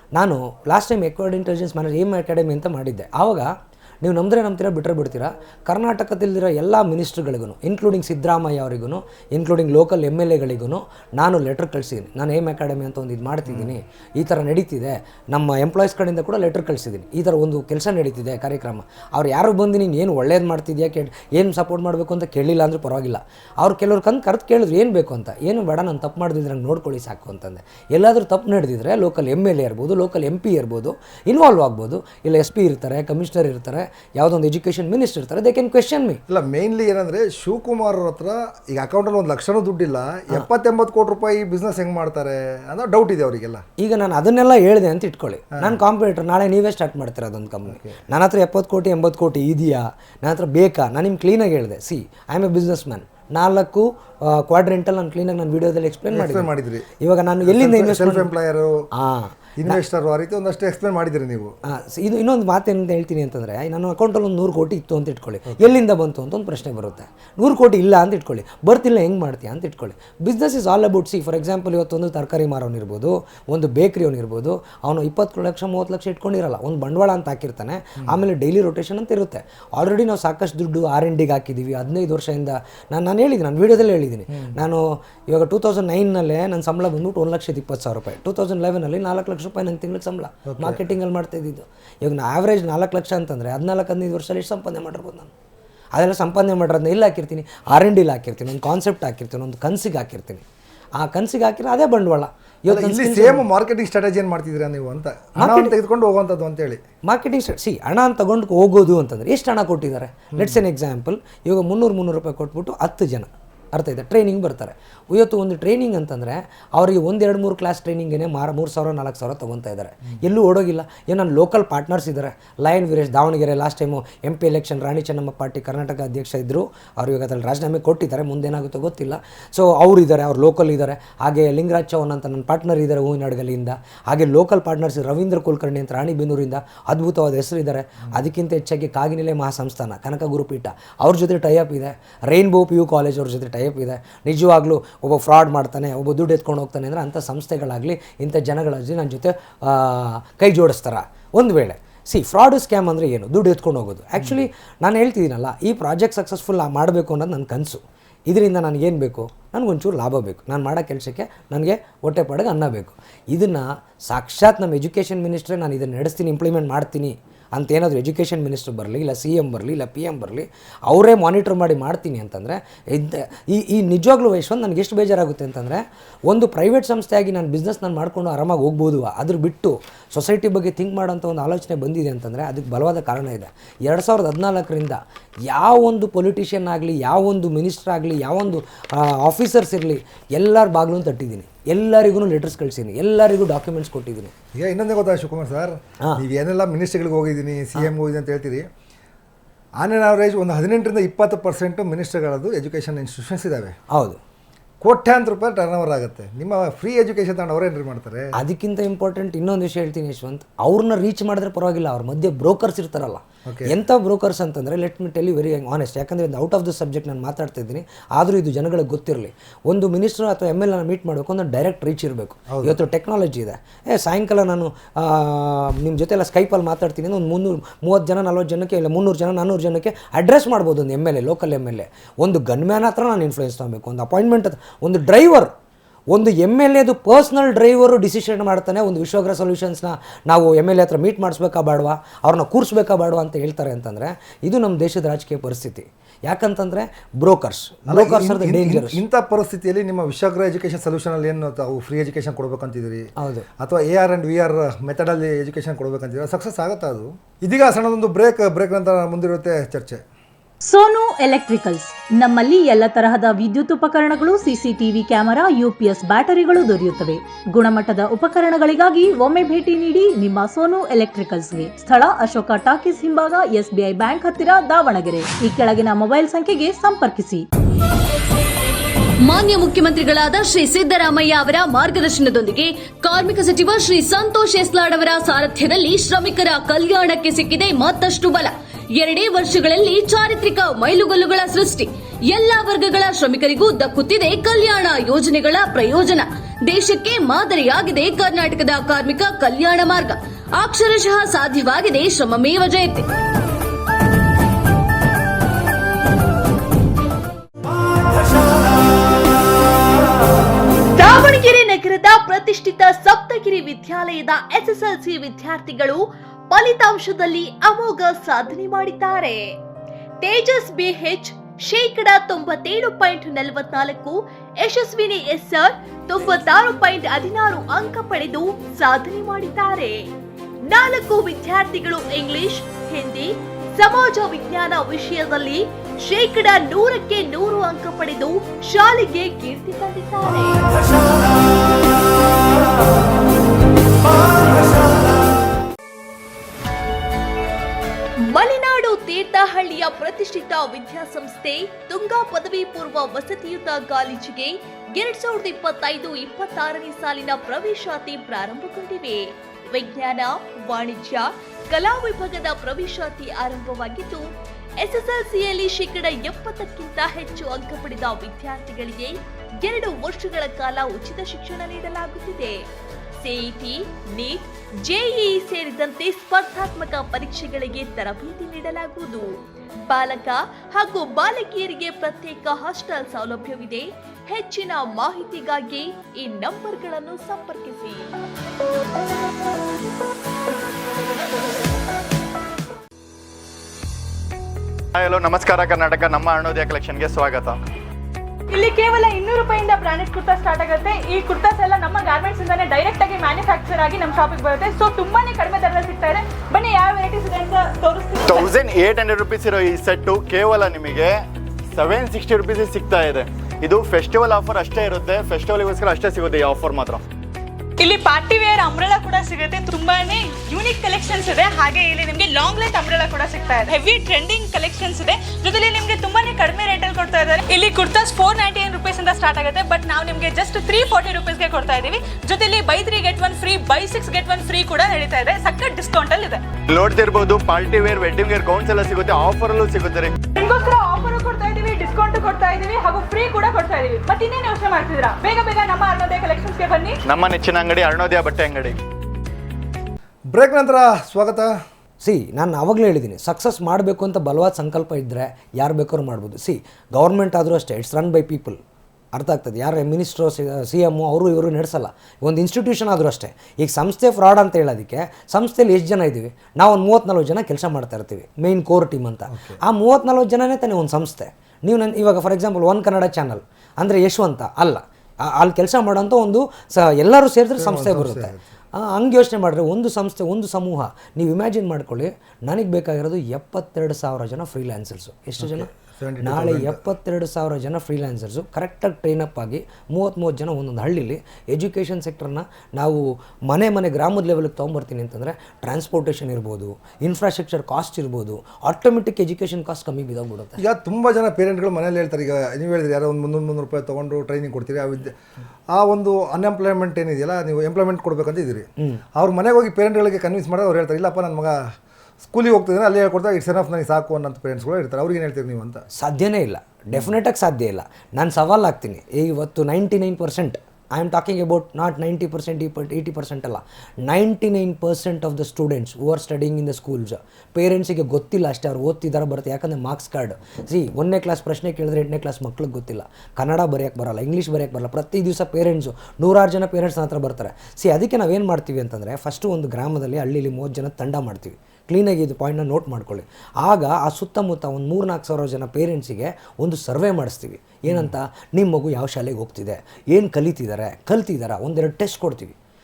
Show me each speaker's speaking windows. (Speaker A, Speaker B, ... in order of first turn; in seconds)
Speaker A: 0.1-36.2, 43.8-56.5, 57.0-58.3, 59.0-59.8, 61.6-95.3, 95.9-100.4, 101.0-103.5, 105.3-105.7, 107.0-194.3, 203.9-204.2, 208.3-235.5, 236.1-249.0, 253.2-253.4, 452.0-458.6, 459.1-485.7, 486.2-500.6, 516.0-552.5
Speaker B: 13.4-13.7, 36.3-43.6, 56.1-56.9, 57.4-58.9, 59.6-61.5, 90.5-90.9, 102.7-106.8, 110.3-110.6, 194.5-198.7, 199.8-203.8, 204.8-208.3, 213.4-213.8, 222.5-222.8, 247.9-260.0, 450.3-451.5, 469.3-469.6, 477.6-478.4, 485.4-486.8, 500.6-505.1, 505.7-511.6, 512.2-515.8, 547.9-548.1
Speaker C: 260.6-277.4
Speaker D: 279.2-303.0
Speaker E: 310.9-319.4, 320.2-329.9, 330.7-340.6, 348.3-364.2, 364.8-372.6, 373.2-379.3, 379.9-388.1
Speaker F: 394.9-397.6, 408.2-411.1, 411.7-417.0, 436.7-440.2, 447.1-448.8
Speaker G: 398.5-408.5, 417.8-436.4, 440.3-447.0